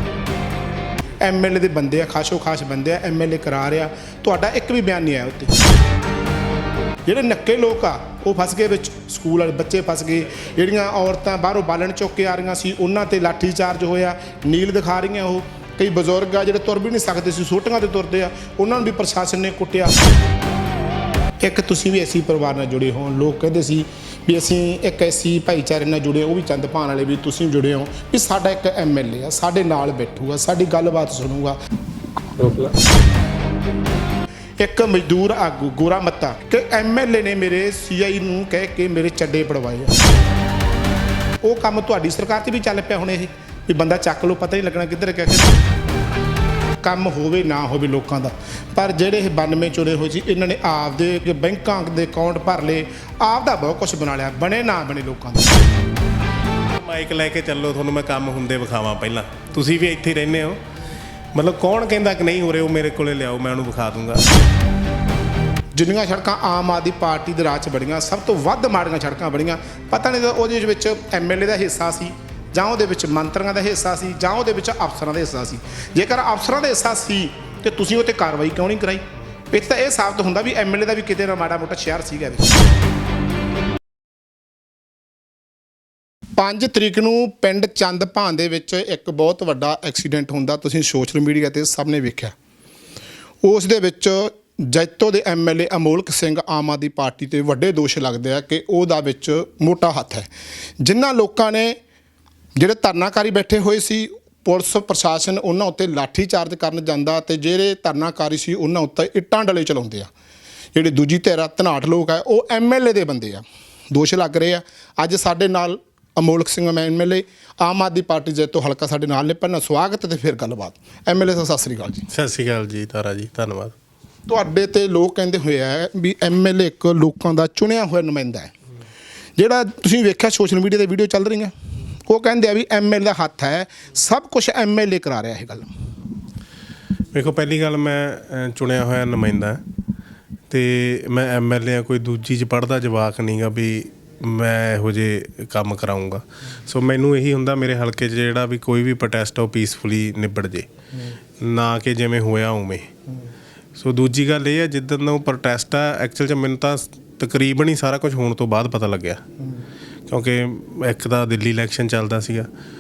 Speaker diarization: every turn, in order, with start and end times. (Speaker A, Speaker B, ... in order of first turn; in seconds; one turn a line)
Speaker A: 1.2-5.6
Speaker A: 7.1-20.0
Speaker A: 21.4-31.6
Speaker A: 34.6-40.0
Speaker A: 41.4-45.6
Speaker A: 46.8-55.6
Speaker B: 56.7-60.6
Speaker B: 61.4-64.2
Speaker A: 65.8-82.7
Speaker A: 86.4-92.3
Speaker A: 93.4-100.3
Speaker A: 100.8-101.8
Speaker A: 102.5-110.1
Speaker A: 110.8-122.0
Speaker B: 122.1-123.8
Speaker A: 124.3-128.5
Speaker A: 129.4-131.5
Speaker A: 132.1-135.7
Speaker B: 137.1-139.6
Speaker B: 140.5-150.7
Speaker B: 151.4-152.9
Speaker B: 153.8-159.2
Speaker A: 159.4-159.7
Speaker B: 160.1-162.5